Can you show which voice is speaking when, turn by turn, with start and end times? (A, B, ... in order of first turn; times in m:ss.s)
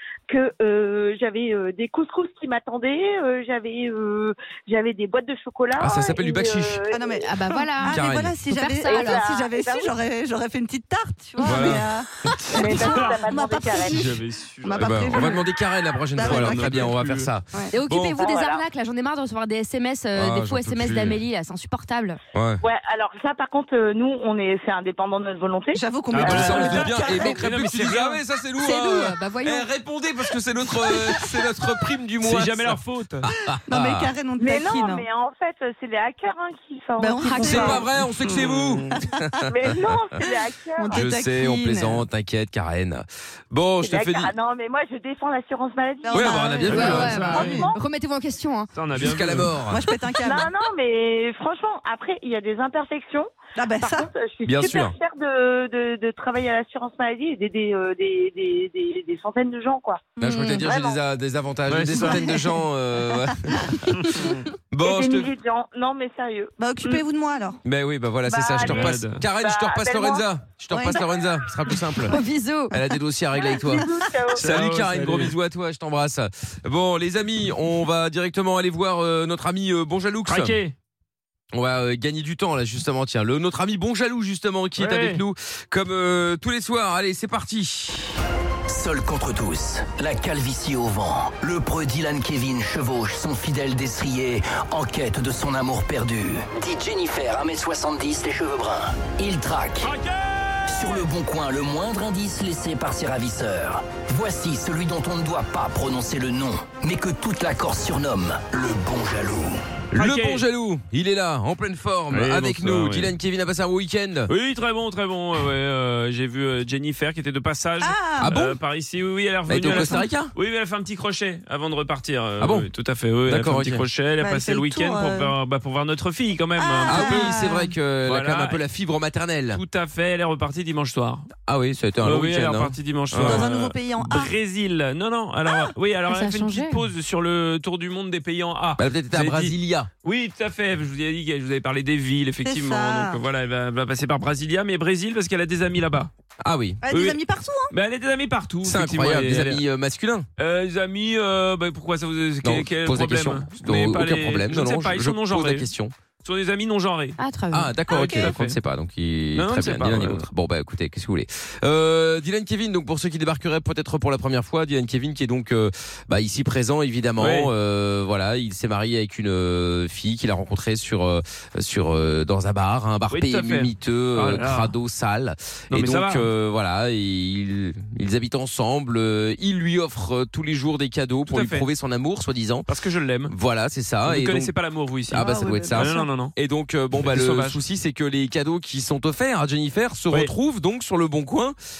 0:00.3-0:07.2 A
0:05.8-0:06.8 B
0:06.9-0:15.5 C
0:07.2-0:09.2 D
0:07.9-0:08.3 B
0:08.8-0:09.9 A
0:11.5-0:11.8 B
0:11.5-0:11.8 E
0:12.5-0:14.1 A
0:12.8-0:13.2 E
0:13.9-0:15.4 E
0:14.8-0:17.4 B
0:16.2-0:16.9 C
0:16.2-0:17.3 E
0:17.7-0:22.2 D
0:17.9-0:18.1 E
0:18.2-0:18.6 A
0:20.2-0:21.2 B
0:22.3-0:22.6 B
0:22.6-0:25.8 A
0:25.7-0:27.4 C
0:26.1-0:28.2 E
0:26.2-0:34.1 B
0:28.6-0:29.7 D
0:32.2-0:33.3 E
0:33.7-0:35.1 C
0:34.4-0:37.8 A
0:37.0-0:37.9 C
0:37.4-0:39.7 B
0:38.2-0:38.8 E
0:39.5-0:41.0 A
0:40.8-0:42.0 C
0:40.9-0:44.3 B
0:43.8-0:46.7 A
0:46.0-0:47.5 C
0:46.1-0:47.5 B
0:46.6-0:47.6 E
0:46.7-0:48.7 D
0:47.4-0:47.8 A
0:48.7-0:49.6 E
0:48.9-0:49.8 B
0:49.7-0:50.5 C
0:50.2-1:00.1 A
0:53.6-0:54.1 C
0:54.4-0:55.0 B
1:00.2-1:05.3 B
1:00.2-1:00.6 D
1:00.6-1:01.0 A
1:01.7-1:02.3 E
1:03.9-1:04.4 E
1:04.8-1:07.0 A
1:06.6-1:07.6 C
1:07.6-1:12.2 B
1:08.3-1:10.3 A
1:08.6-1:09.3 E
1:10.7-1:11.0 C
1:12.1-1:12.7 D
1:12.7-1:20.6 B
1:13.3-1:14.4 A
1:14.3-1:15.4 E
1:20.3-1:20.7 E
1:21.5-1:28.1 B
1:24.8-1:25.2 E
1:28.7-1:39.9 F
1:39.8-1:41.1 E
1:40.7-1:49.6 F
1:49.9-1:54.3 B
1:49.9-1:50.4 E
1:52.1-1:53.1 E
1:54.3-2:07.4 E
1:57.8-1:58.4 C
1:58.2-1:58.6 B
1:59.5-2:00.3 B
1:59.7-2:00.0 C
2:02.4-2:02.7 B
2:03.3-2:03.9 B
2:04.2-2:05.4 C
2:06.6-2:07.7 C
2:06.9-2:09.6 B
2:08.0-2:08.6 E
2:09.5-2:11.3 E
2:11.4-2:13.4 B
2:12.0-2:26.1 E
2:13.2-2:14.3 C
2:16.1-2:16.8 D
2:18.8-2:19.9 B
2:22.4-2:23.2 C
2:26.4-2:26.8 B
2:26.8-2:27.7 C
2:26.9-2:27.2 E
2:27.7-2:29.6 E
2:28.6-2:30.3 B
2:30.4-2:37.2 E
2:32.4-2:35.9 B
2:37.2-2:37.8 D
2:37.5-3:02.7 B
2:37.9-2:38.6 E
2:37.9-2:38.3 C
2:39.4-2:40.2 E
2:47.2-2:47.5 E
2:53.1-2:54.7 E
2:55.7-2:56.3 E
3:01.3-3:01.7 E
3:02.7-3:03.3 E
3:03.3-3:04.5 B
3:04.0-3:06.4 E
3:05.1-3:11.6 B
3:05.1-3:06.1 C
3:06.9-3:07.6 E